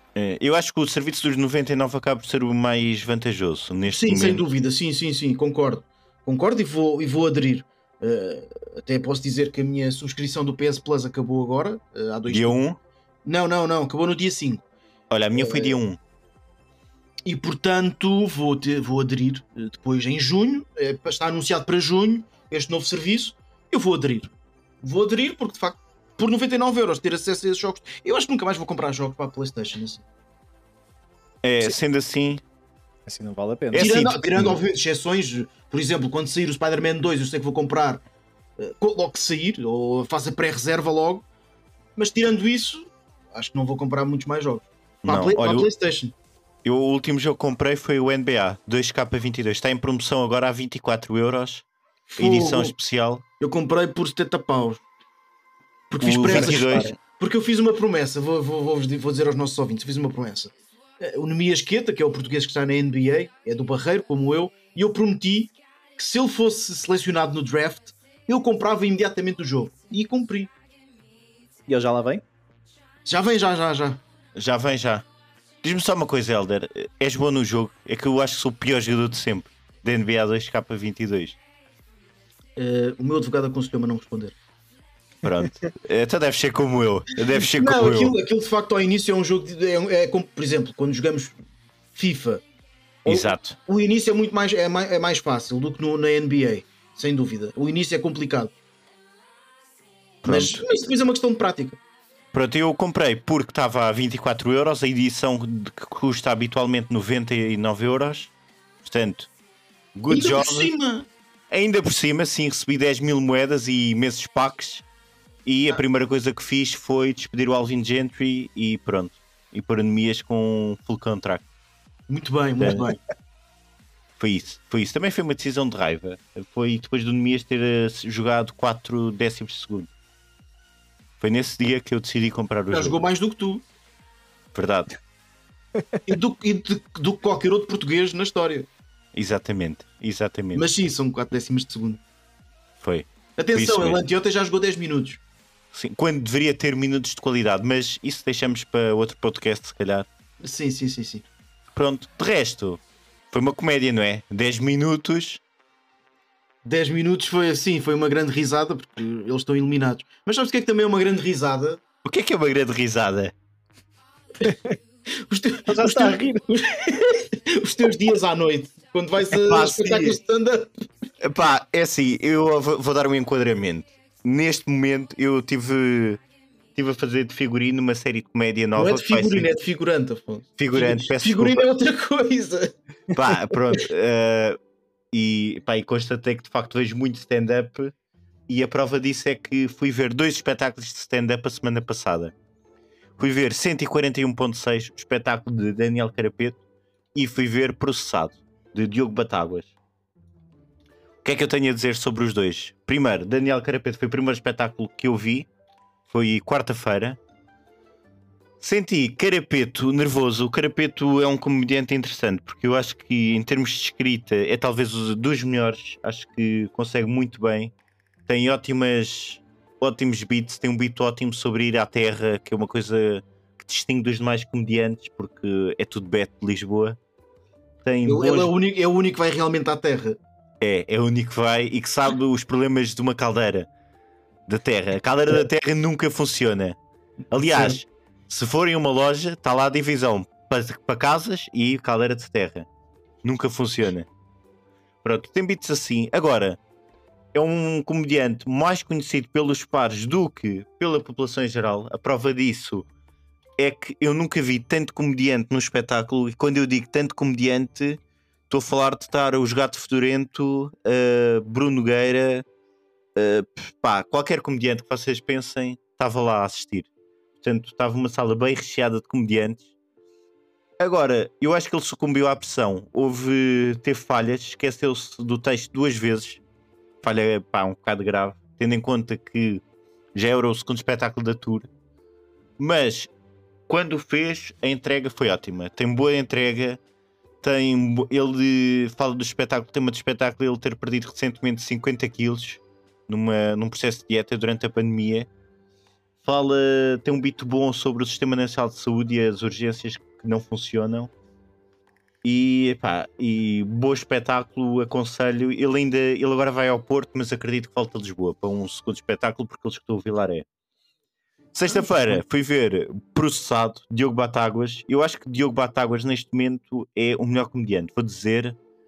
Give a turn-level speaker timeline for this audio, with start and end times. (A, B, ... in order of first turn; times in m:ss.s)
0:00.2-0:04.4 A
0:03.9-0:12.6 B
0:12.3-0:12.8 A
0:13.3-0:14.6 B
0:15.1-0:16.0 A
0:15.3-0:15.8 B
0:17.3-0:24.3 B
0:24.8-0:30.0 B
0:31.4-0:32.4 A
0:33.1-0:33.9 C
0:33.7-0:34.6 A
0:33.7-0:38.0 B
0:38.6-0:41.2 B
0:42.0-0:46.1 B
0:45.0-0:45.7 A
0:46.6-0:51.6 A
0:52.1-0:52.8 B
0:52.2-0:53.2 A
0:53.4-0:54.8 B
0:55.9-1:10.5 B
0:56.0-0:57.0 A
0:56.3-0:56.9 C
1:11.7-1:12.2 C
1:13.1-1:14.0 B
1:14.4-1:15.1 A
1:15.6-1:21.4 A
1:22.6-1:24.4 B
1:25.2-1:28.2 A
1:27.4-1:31.4 B
1:32.0-1:32.4 B
1:33.0-1:33.6 A
1:33.0-1:38.5 B
1:40.2-1:40.6 A
1:40.2-1:41.8 B
1:42.3-1:48.3 A
1:48.8-1:49.3 A
1:50.0-1:50.7 A
1:50.1-1:51.1 B
1:51.5-1:54.8 A
1:55.4-2:01.4 A
2:02.1-2:03.0 B
2:02.6-2:02.9 A
2:04.2-2:09.9 A
2:11.2-2:13.0 A
2:12.7-2:13.6 B
2:14.5-2:14.9 A
2:16.1-2:18.7 B
2:19.1-2:20.7 A
2:20.6-2:22.0 B
2:22.8-2:24.0 A
2:23.4-2:25.2 B
2:25.7-2:30.1 A
2:30.4-2:31.2 B
2:31.8-2:32.8 A
2:33.3-2:35.4 A
2:36.6-2:41.8 B
2:42.0-2:43.3 A
2:44.4-2:44.7 C
2:45.2-2:50.7 B
2:45.7-2:46.4 C
2:49.3-2:50.2 A
2:51.2-2:56.2 A
2:56.8-2:59.5 A
2:58.8-3:02.7 B
3:00.6-3:01.7 A
3:03.1-3:04.6 A
3:05.1-3:07.9 A
3:08.5-3:12.3 A
3:13.2-3:16.6 A
3:17.2-3:19.7 A
3:21.2-3:25.5 A
3:26.1-3:27.2 A
3:28.6-3:37.7 A
3:38.3-3:47.0 A
3:47.8-3:48.5 A
3:48.1-3:50.2 B
3:50.6-3:53.7 A
3:54.5-3:56.8 A
3:57.3-4:02.7 A
3:57.4-3:57.8 B
4:03.2-4:04.1 A
4:05.0-4:06.6 A
4:07.3-4:12.9 A
4:13.6-4:22.4 A
4:23.2-4:26.9 A
4:27.4-4:29.7 A
4:30.8-4:36.4 A
4:37.0-4:39.6 A
4:40.2-4:41.7 A
4:42.6-4:43.1 A
4:43.7-4:46.8 A
4:47.4-4:55.3 A
4:56.2-5:01.1 A
5:02.2-5:10.5 A
5:11.5-5:18.6 A